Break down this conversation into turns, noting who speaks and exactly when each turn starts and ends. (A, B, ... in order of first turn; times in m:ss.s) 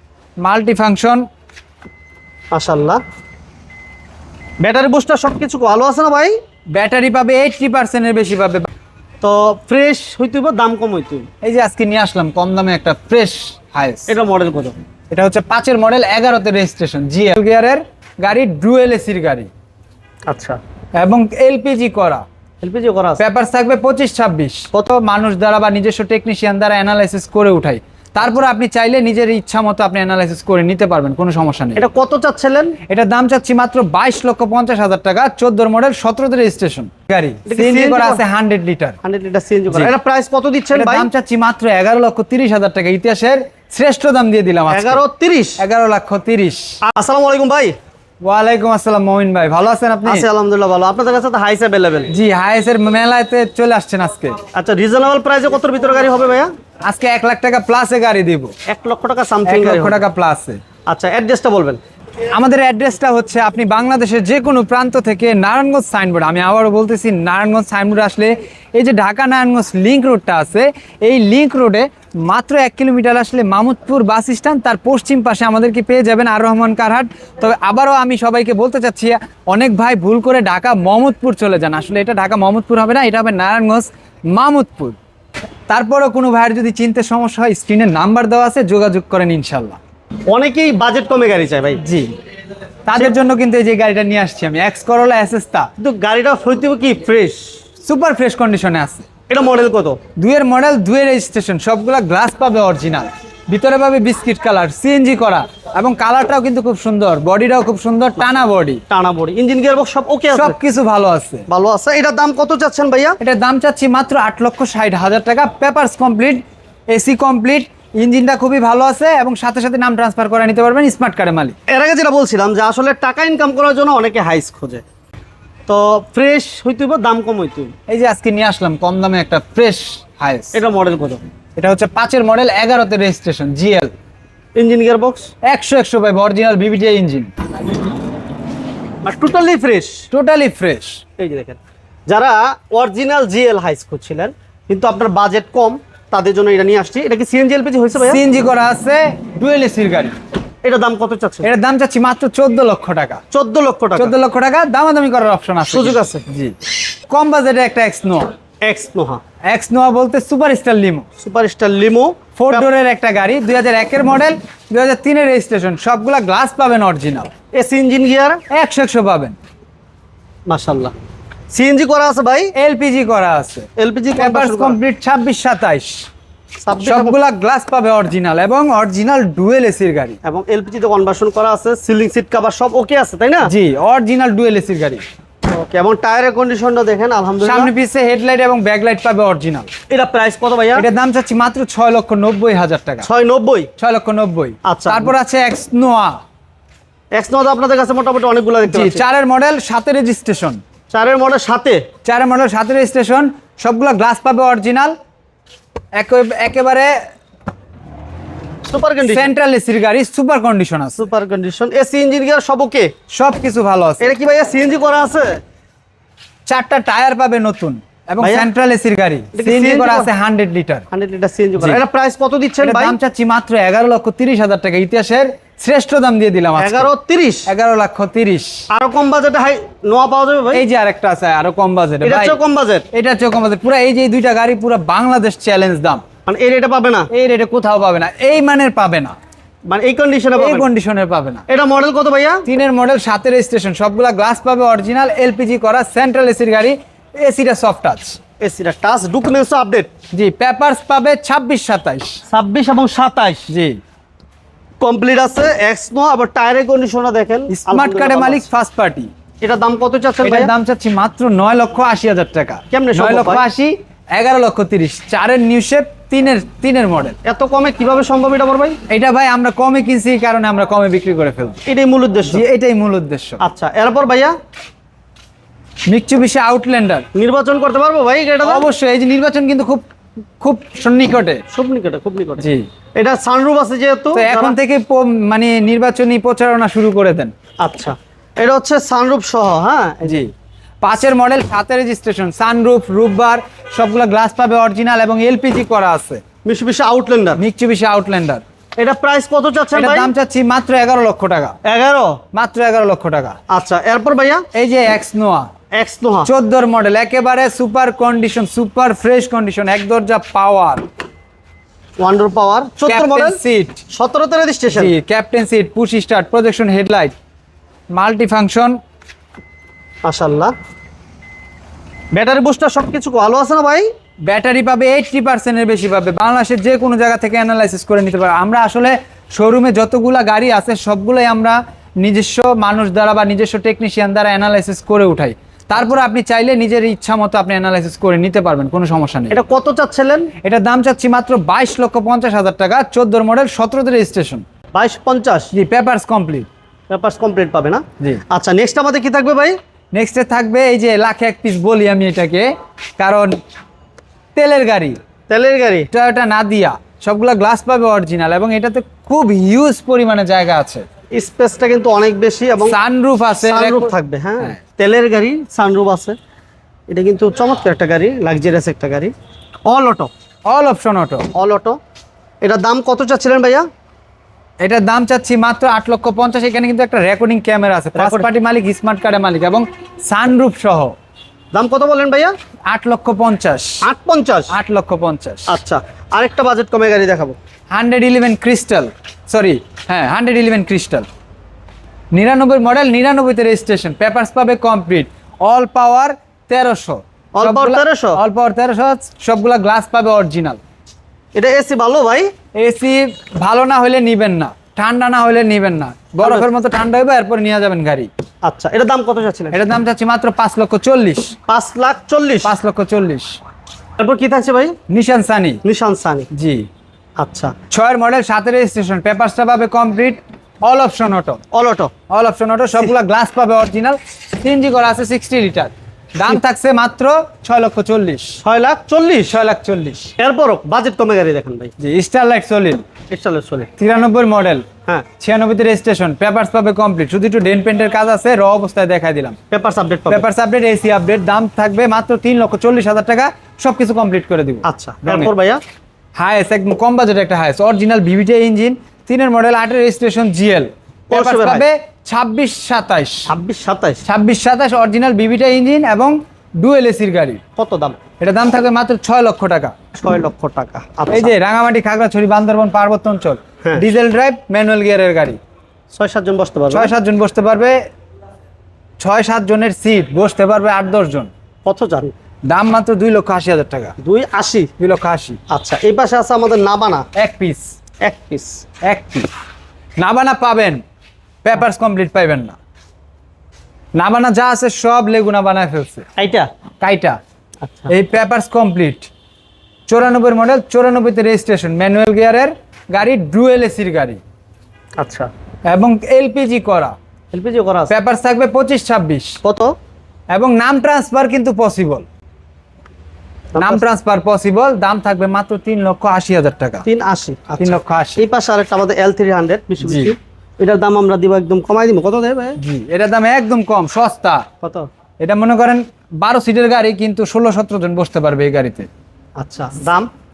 0:00.4-0:01.2 A
0:02.5-0:03.0 B
0:04.6-0:06.4 B
0:06.7-0:08.7 A
0:09.2-0:11.3 B
0:11.4-0:14.1 A
0:14.1-0:14.8 B
0:15.1-0:19.5 A
0:20.3-0:20.6 B
0:21.0-0:22.2 A
0:22.6-0:23.2 B
0:23.2-0:31.8 A
0:31.8-0:32.8 B
0:32.9-0:39.0 A
0:37.5-0:38.2 B
0:39.0-0:41.1 B
0:40.7-0:45.0 A
0:44.7-0:45.6 B
0:45.6-0:46.8 A
0:46.8-0:47.7 B
0:48.2-0:50.2 A
0:50.0-0:52.1 B
0:52.1-0:54.4 A
0:54.5-0:56.5 B
0:56.8-0:58.5 A
0:58.6-1:00.0 B
0:59.4-1:00.6 A
1:00.9-1:01.8 B
1:02.3-1:25.0 A
1:25.7-1:29.8 A
1:30.3-1:31.8 B
1:31.8-1:32.1 A
1:32.9-1:35.7 A
1:35.8-1:37.6 B
1:37.8-1:39.1 A
1:39.3-1:40.0 B
1:40.2-1:48.8 A
1:48.9-1:50.6 B
1:50.3-1:51.4 A
1:51.5-1:53.2 B
1:53.2-1:56.4 A
1:56.9-2:01.6 A
2:01.7-2:04.8 B
2:05.7-2:07.7 B
2:07.9-2:10.6 A
2:10.5-2:11.2 B
2:11.6-2:13.9 A
2:14.6-2:15.3 B
2:15.5-2:17.3 A
2:19.0-2:20.0 B
2:20.1-2:21.0 A
2:21.2-2:28.2 B
2:28.0-2:30.2 A
2:30.6-2:31.5 B
2:31.4-2:33.2 A
2:33.3-2:34.1 B
2:34.0-2:36.6 A
2:35.7-2:36.2 B
2:37.1-2:38.3 A
2:38.6-2:39.2 B
2:39.5-2:41.0 A
2:41.2-2:42.7 B
2:42.4-2:47.3 A
2:47.5-2:48.4 B
2:48.5-2:49.4 A
2:50.5-2:50.9 B
2:51.5-2:52.5 B
2:52.5-2:56.0 A
2:53.8-2:54.8 B
2:56.6-2:57.2 B
2:56.8-3:00.2 A
3:00.2-3:03.5 B
3:03.4-3:05.0 A
3:05.5-3:07.7 B
3:07.4-3:09.7 A
3:09.9-3:10.8 B
3:10.8-3:13.1 A
3:13.0-3:13.7 B
3:13.8-3:16.2 A
3:14.6-3:15.1 B
3:17.1-3:19.0 B
3:18.7-3:20.6 A
3:20.9-3:21.8 B
3:22.0-3:24.9 A
3:25.9-3:26.9 A
3:28.6-3:29.3 B
3:29.0-3:31.0 A
3:30.9-3:32.9 B
3:33.1-3:34.1 A
3:34.0-3:35.4 B
3:36.5-3:40.8 A
3:38.2-3:38.5 B
3:39.3-3:40.1 B
3:40.9-3:43.0 B
3:42.6-3:46.9 A
3:46.6-3:47.5 B
3:47.5-3:48.6 A
3:48.7-3:50.6 B
3:50.5-3:52.4 A
3:52.0-3:52.8 B
3:52.9-3:56.0 A
3:56.2-3:57.1 B
3:57.1-3:59.1 A
3:59.6-4:00.7 B
4:00.4-4:01.4 A
4:01.5-4:02.4 B
4:02.4-4:08.2 A
4:08.4-4:09.9 B
4:10.1-4:12.2 A
4:12.3-4:13.5 B
4:13.5-4:13.8 A
4:14.8-4:18.5 B
4:17.5-4:19.1 A
4:19.4-4:20.5 B
4:20.2-4:27.2 A
4:22.7-4:23.4 B
4:27.2-4:28.8 B
4:28.9-4:31.6 A
4:31.6-4:32.4 B
4:32.3-4:33.4 A
4:33.4-4:34.3 B
4:35.9-4:37.0 A
4:37.1-4:38.6 B
4:38.4-4:39.8 A
4:40.4-4:41.4 A
4:41.5-4:44.6 B
4:42.4-4:42.7 A
4:44.1-4:47.3 A
4:47.6-4:50.2 B
4:50.0-4:50.3 A
4:50.8-4:56.2 A
4:56.4-4:57.4 B
4:57.4-4:58.4 A
4:58.8-5:00.1 B
4:59.7-5:01.6 A
5:01.6-5:02.2 B
5:02.3-5:03.4 A
5:03.5-5:04.4 B
5:04.5-5:05.5 A
5:05.7-5:06.3 B
5:06.2-5:10.8 A
5:12.0-5:13.4 B
5:12.8-5:13.8 A
5:13.9-5:14.9 B
5:14.7-5:17.1 A
5:17.9-5:18.8 A
5:20.0-5:20.5 B
5:22.1-5:23.9 B
5:24.2-5:39.4 A
5:39.3-5:40.3 B
5:40.4-5:44.4 A
5:44.7-5:45.5 B
5:45.5-5:46.5 A
5:46.9-5:49.6 B
5:49.9-5:52.5 A
5:53.0-5:53.4 A
5:54.3-5:55.0 A
5:55.3-5:55.9 B
5:55.9-6:00.9 A
6:01.1-6:02.8 B
6:02.6-6:03.9 A
6:03.4-6:06.2 B
6:06.9-6:09.1 B
6:09.6-6:10.1 B
6:10.5-6:11.3 A
6:11.3-6:11.8 B
6:12.4-6:13.6 B
6:14.6-6:20.9 A
6:18.0-6:18.3 B
6:21.5-6:22.3 B
6:22.7-6:23.8 A
6:23.8-6:24.5 B
6:24.5-6:25.5 A
6:25.5-6:27.4 B
6:27.7-6:31.1 A
6:32.1-6:40.6 A
6:37.3-6:38.2 B
6:41.3-6:42.3 B
6:42.6-6:48.1 A
6:46.2-6:46.5 B
6:48.4-6:49.6 B
6:49.5-6:51.3 A
6:51.5-6:52.5 B
6:52.4-6:53.4 A
6:54.0-6:54.8 B
6:54.9-6:55.6 A
6:55.6-6:56.3 B
6:56.3-6:56.6 A
6:57.2-6:57.5 B
6:57.7-7:01.4 A
7:01.5-7:01.9 B
7:02.1-7:08.4 A
7:08.4-7:09.3 B
7:09.3-7:10.1 A
7:10.2-7:11.7 B
7:11.8-7:12.9 A
7:13.1-7:13.7 B
7:13.8-7:14.7 A
7:15.2-7:19.4 A
7:19.5-7:20.2 B
7:20.1-7:25.3 A
7:24.6-7:25.6 B
7:26.2-7:33.3 A
7:31.1-7:31.6 B
7:33.3-7:34.0 B
7:34.0-7:37.4 A
7:37.6-7:38.0 B
7:38.2-7:39.7 A
7:40.0-7:41.3 B
7:41.1-7:45.4 A
7:45.9-7:46.9 B
7:46.7-7:47.8 A
7:49.0-7:51.3 A
7:51.6-7:52.1 B
7:52.5-7:53.9 A
7:54.0-7:54.7 B
7:54.8-7:55.4 A
7:55.5-7:57.0 B
7:57.2-7:57.7 A
7:58.0-7:58.6 B
7:58.8-7:59.3 A
8:00.0-8:00.8 A
8:01.4-8:02.6 A
8:03.9-8:06.0 A
8:06.2-8:06.5 B
8:06.8-8:07.2 A
8:07.6-8:07.9 B
8:07.9-8:09.1 A
8:09.9-8:14.2 A
8:15.0-8:15.3 B
8:15.7-8:17.0 A
8:17.3-8:17.9 B
8:17.9-8:19.4 A
8:19.4-8:19.7 B
8:20.3-8:22.0 A
8:23.5-8:23.8 B
8:23.6-8:26.8 A
8:26.8-8:32.6 B
8:27.6-8:28.2 A
8:29.8-8:30.1 A
8:32.6-8:34.4 A
8:34.6-8:34.9 B
8:35.2-8:38.9 A
8:39.4-8:40.1 B